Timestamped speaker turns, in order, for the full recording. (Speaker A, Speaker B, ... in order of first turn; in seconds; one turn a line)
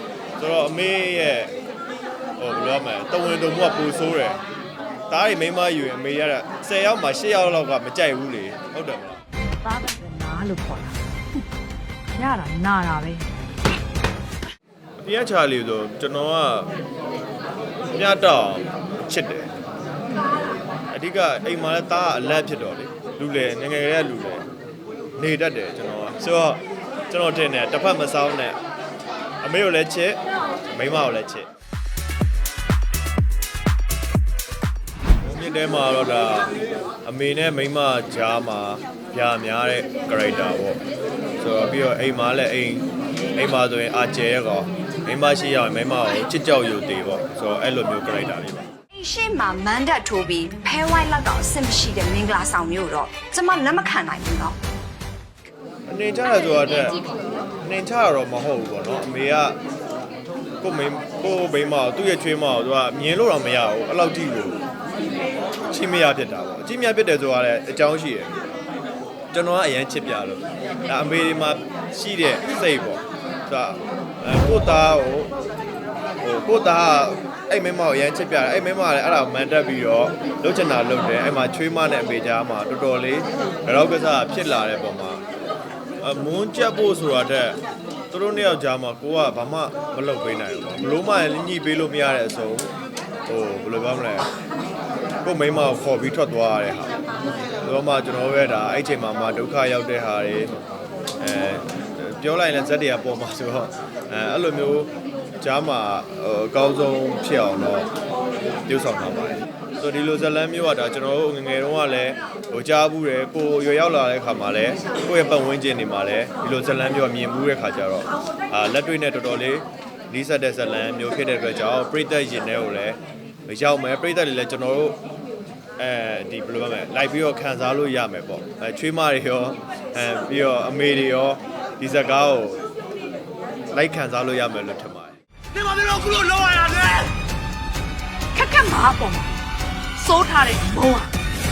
Speaker A: 0.4-1.5
Speaker A: 2.4-4.4
Speaker A: 5.1-9.2
Speaker B: 9.6-11.5
Speaker B: 12.2-13.3
Speaker A: 15.0-16.7
Speaker A: 17.9-19.5
Speaker A: 20.9-24.4
Speaker A: 25.2-28.6
Speaker A: 29.4-31.5
Speaker A: 35.2-36.5
Speaker A: 37.0-40.8
Speaker A: 41.4-42.9
Speaker A: 43.4-48.7
Speaker C: 49.0-54.6
Speaker A: 55.9-57.0
Speaker A: 57.6-59.6
Speaker A: 60.6-64.6
Speaker A: 65.7-68.3
Speaker A: 69.3-75.3
Speaker A: 76.2-85.2
Speaker A: 86.0-87.6
Speaker A: 88.1-92.7
Speaker A: 93.3-94.3
Speaker A: 95.2-97.0
Speaker A: 97.6-100.5
Speaker A: 101.2-107.9
Speaker A: 108.7-125.0
Speaker A: 125.8-132.6
Speaker A: 133.7-135.2
Speaker B: 135.6-137.1
Speaker B: 138.3-139.3
Speaker B: 140.0-141.1